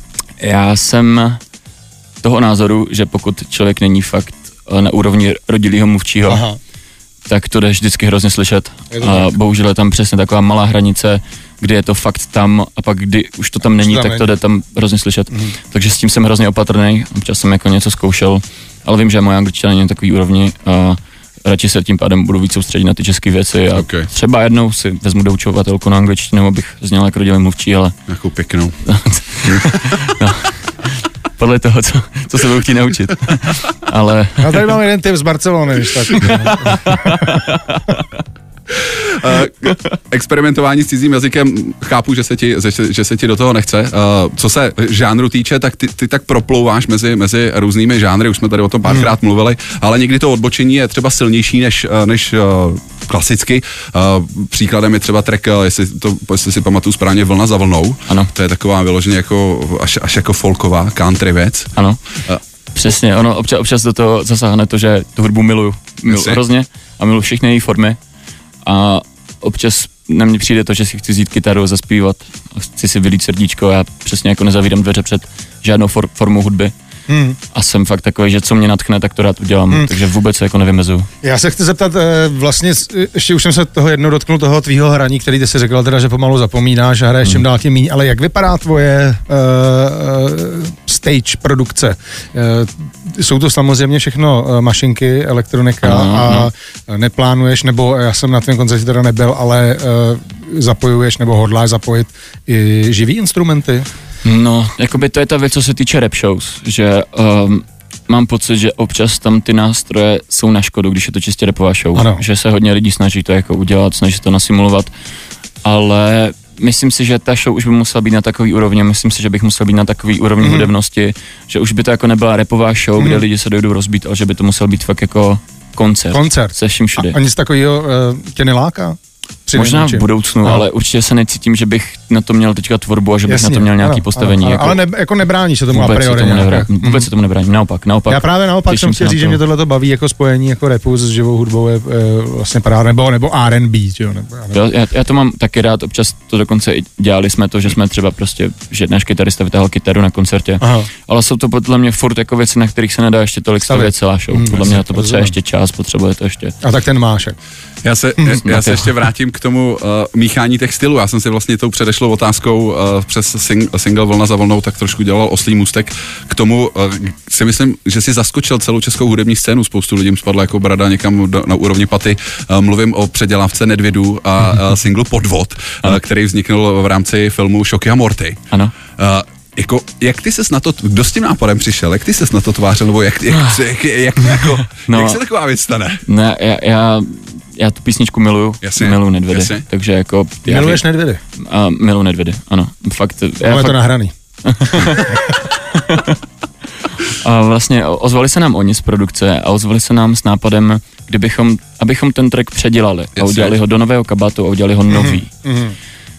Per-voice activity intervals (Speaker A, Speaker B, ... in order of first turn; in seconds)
Speaker A: 0.4-1.4, 2.2-6.4, 7.2-27.9, 28.8-34.7, 36.1-38.2, 61.8-62.0, 62.7-68.0, 68.6-76.7, 77.5-81.1, 95.8-96.5, 104.2-114.9, 115.6-127.2, 129.5-134.8, 135.7-139.4, 144.5-156.5, 158.4-158.9, 184.8-185.2, 186.1-190.8, 191.4-193.8, 194.4-196.2, 197.0-205.3
Speaker B: 6.3-6.6, 8.9-9.3, 13.8-14.2, 34.4-37.3, 77.1-77.4, 81.2-103.8, 111.9-112.2, 120.4-120.7, 123.0-123.2, 126.1-130.6, 133.3-137.1, 138.1-144.6, 150.6-150.9, 153.7-155.3, 156.6-157.3, 190.4-191.2, 193.4-194.1, 194.9-195.2, 204.9-205.8
Speaker C: 23.7-24.1, 28.1-28.8, 29.4-29.7, 38.8-62.4, 66.1-66.4, 157.8-178.4, 178.9-186.0, 188.6-189.6, 203.2-203.6